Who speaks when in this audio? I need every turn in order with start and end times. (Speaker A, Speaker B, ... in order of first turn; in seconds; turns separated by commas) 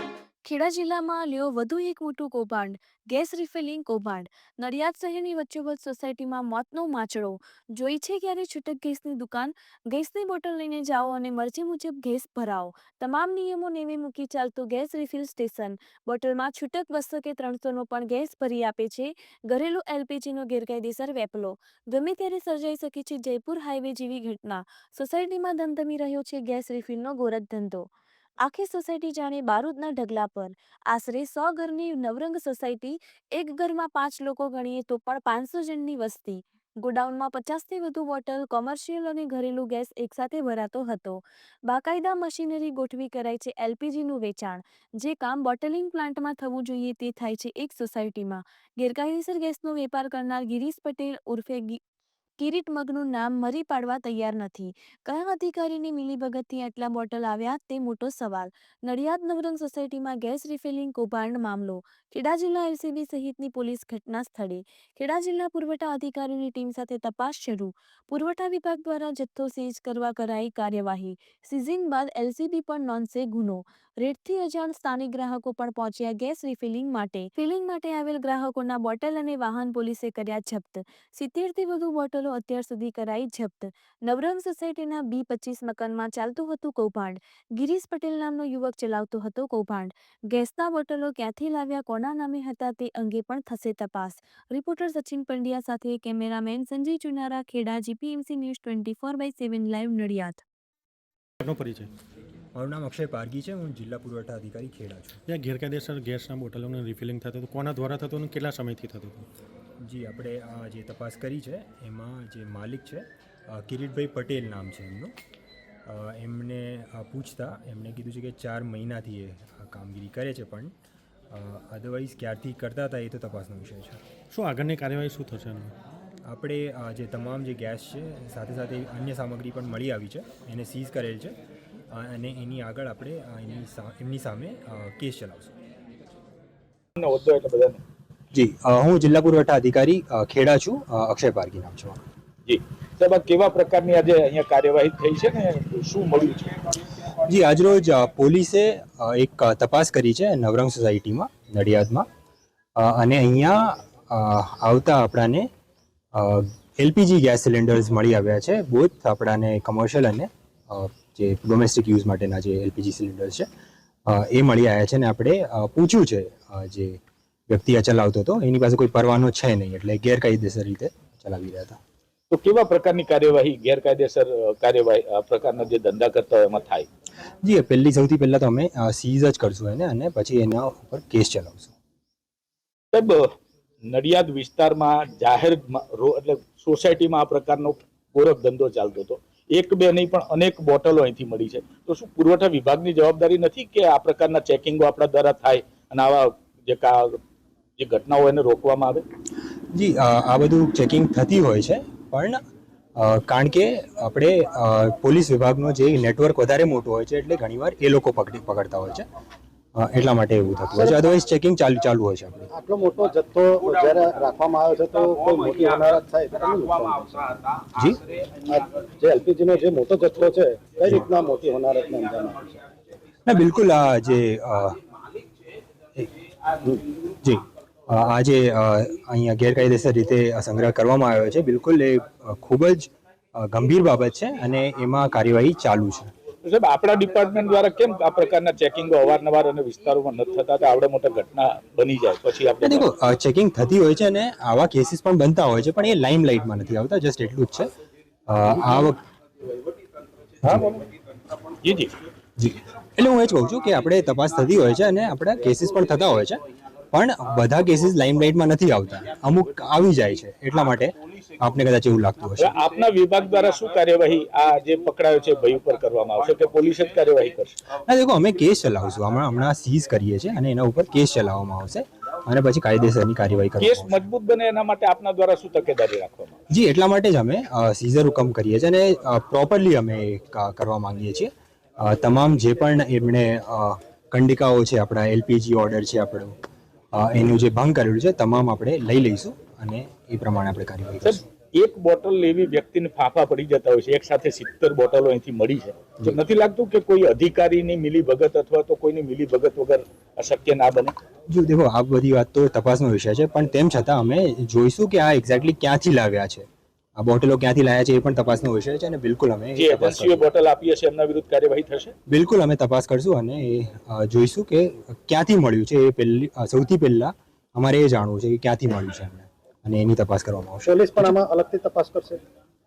Speaker A: 0.4-27.9, Speaker A: 28.4-51.8, Speaker A: 52.4-100.4, Speaker B: 101.4-101.9, Speaker C: 102.5-105.2, Speaker B: 105.3-109.3, Speaker C: 109.8-115.1, Speaker C: 115.9-120.7, Speaker C: 121.3-124.0, Speaker B: 124.3-125.7, Speaker C: 126.3-131.4, Speaker C: 131.9-135.5, Speaker D: 137.0-137.8, Speaker C: 138.3-142.0, Speaker D: 142.5-146.8, Speaker C: 147.2-152.1, Speaker C: 152.8-155.5, Speaker C: 156.2-163.5, Speaker C: 164.1-171.8, Speaker D: 172.3-176.9, Speaker C: 177.4-181.7, Speaker D: 182.9-183.3, Speaker D: 183.9-197.2, Speaker D: 197.8-199.0, Speaker C: 199.7-202.4, Speaker C: 203.0-209.1, Speaker C: 209.8-212.5, Speaker E: 210.8-211.0, Speaker E: 212.5-217.4, Speaker C: 217.7-218.0, Speaker E: 218.4-222.6, Speaker C: 223.3-224.8, Speaker C: 227.0-236.1, Speaker D: 236.4-242.9, Speaker C: 242.6-247.7, Speaker C: 248.3-249.0, Speaker D: 250.4-250.8, Speaker D: 251.6-251.9, Speaker C: 252.4-262.6, Speaker D: 262.4-267.6, Speaker C: 267.8-274.1, Speaker D: 273.6-276.4, Speaker C: 276.5-286.4, Speaker C: 286.9-291.3, Speaker D: 291.1-300.9, Speaker C: 301.3-306.5, Speaker C: 307.0-310.2, Speaker D: 309.6-311.9, Speaker C: 312.1-321.2, Speaker E: 320.7-322.2